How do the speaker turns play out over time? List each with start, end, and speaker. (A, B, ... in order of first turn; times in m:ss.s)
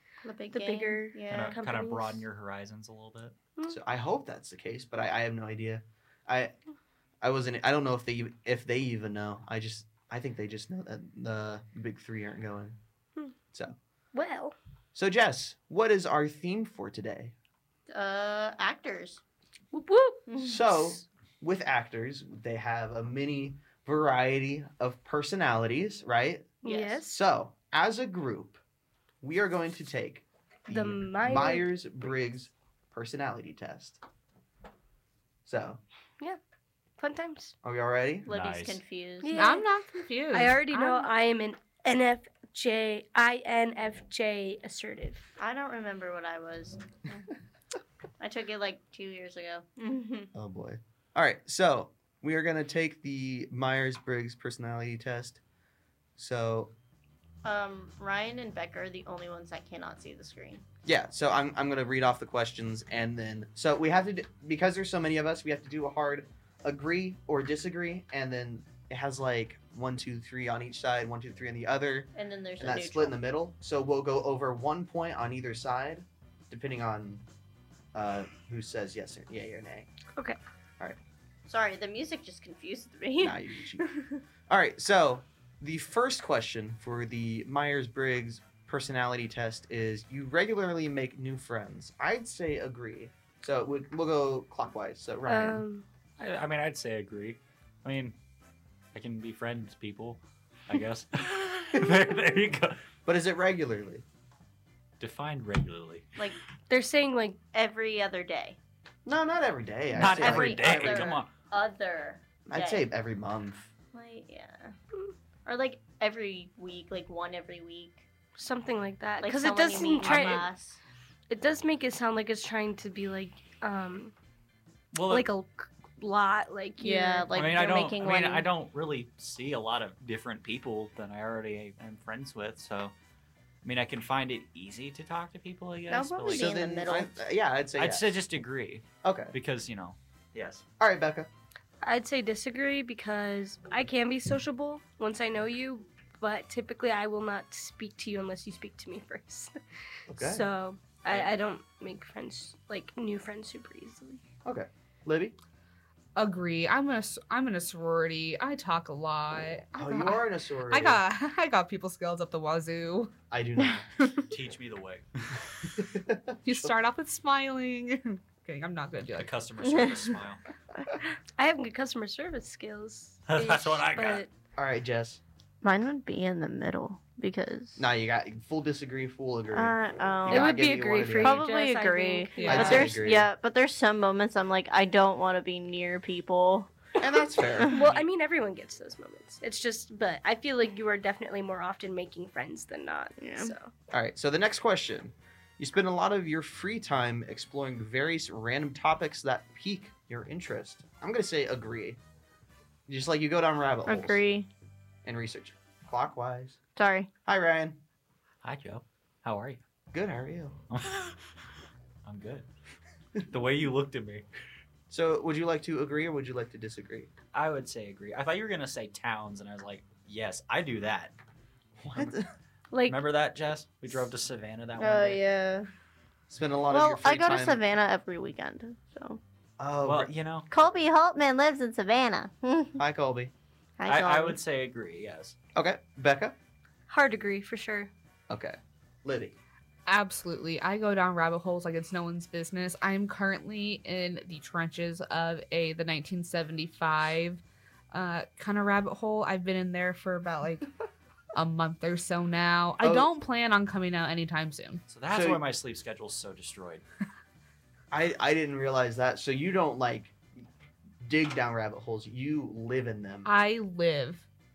0:00.2-0:01.6 A
0:00.5-0:02.2 B
0:01.3-0:03.4 C
0:03.7-0:06.6 D
0:07.2-0:12.8 D
0:14.1-0:14.6 B
0:14.9-0:17.3 D
0:17.9-0:19.2 A
0:19.7-0:20.3 B
0:20.3-0:20.7 A
0:20.4-0:26.5 D
0:26.6-0:27.2 B
0:26.6-0:27.0 A
0:27.0-0:28.6 D
0:29.2-0:34.0 D
0:30.7-0:31.8 B
0:35.5-0:35.8 D
0:37.0-0:37.6 B
0:37.6-0:38.3 D
0:38.3-0:38.8 C
0:38.3-0:39.6 A
0:39.2-0:39.6 B
0:39.3-0:41.1 E
0:40.3-0:45.3 B
0:45.4-0:47.3 A
0:48.2-0:50.3 A
0:50.4-0:55.4 D
0:56.2-0:56.7 D
0:57.4-1:00.6 A
1:00.8-1:17.3 D
1:12.2-1:13.2 A
1:17.9-1:19.9 D
1:21.5-1:24.2 A
1:23.2-1:23.8 D
1:24.5-1:35.6 D
1:35.3-1:35.9 B
1:36.2-1:38.2 C
1:38.9-1:42.8 C
1:43.1-1:44.0 D
1:45.0-1:46.3 C
1:46.7-1:47.4 B
1:47.5-1:48.6 A
1:49.1-1:51.2 D
1:50.0-1:51.3 C
1:50.0-1:52.9 A
1:52.5-1:53.7 D
1:53.9-1:54.8 A
1:55.5-1:58.0 A
1:58.4-2:00.5 B
1:59.2-2:00.8 A
2:00.0-2:00.5 C
2:01.3-2:04.1 B
2:04.9-2:05.3 C
2:05.1-2:07.3 B
2:06.8-2:08.5 A
2:07.3-2:12.9 C
2:13.6-2:16.6 C
2:15.9-2:17.1 A
2:16.3-2:18.2 D
2:17.8-2:20.6 C
2:19.0-2:19.4 D
2:20.8-2:21.3 D
2:21.8-2:34.2 B
2:30.1-2:30.5 D
2:34.4-2:35.4 D
2:36.2-2:43.1 E
2:39.8-2:41.0 D
2:43.3-2:43.9 D
2:44.3-2:45.4 C
2:45.8-2:46.7 D
2:46.4-2:49.3 E
2:49.2-2:50.4 C
2:49.6-2:50.2 A
2:51.4-2:54.3 B
2:53.3-2:54.2 C
2:54.6-2:55.2 D
2:55.6-2:57.9 A
2:57.8-2:59.8 D
2:59.5-3:00.5 A
3:00.3-3:01.4 D
3:00.3-3:02.9 B
3:01.2-3:06.7 A
3:02.4-3:02.9 E
3:02.5-3:03.3 D
3:07.0-3:07.8 D
3:07.4-3:07.7 A
3:07.7-3:13.7 B
3:13.2-3:13.5 A
3:13.9-3:22.0 D
3:22.9-3:24.2 D
3:23.9-3:24.5 A
3:25.0-3:26.6 D
3:26.8-3:27.1 A
3:27.3-3:27.8 D
3:28.4-3:29.6 C
3:29.9-3:30.6 D
3:30.7-3:31.2 C
3:32.0-3:32.5 C
3:33.3-3:34.3 C
3:34.9-3:37.1 D
3:37.3-3:41.2 C
3:41.8-3:42.3 D
3:42.7-3:43.0 B
3:42.9-3:45.2 C
3:44.8-3:45.7 A
3:46.3-3:47.6 D
3:46.7-3:49.2 A
3:49.6-3:50.1 D
3:49.8-3:50.5 C
3:50.5-3:52.8 A
3:52.8-3:53.3 D
3:53.8-3:54.4 A
3:53.9-3:55.4 C
3:55.6-3:56.4 D
3:56.9-3:57.9 B
3:58.3-3:59.4 D
3:59.9-4:10.7 E
4:11.4-4:14.8 E
4:12.8-4:13.1 D
4:14.9-4:16.8 C
4:15.1-4:15.4 D
4:17.9-4:20.2 D
4:21.0-4:23.3 D
4:23.2-4:24.3 E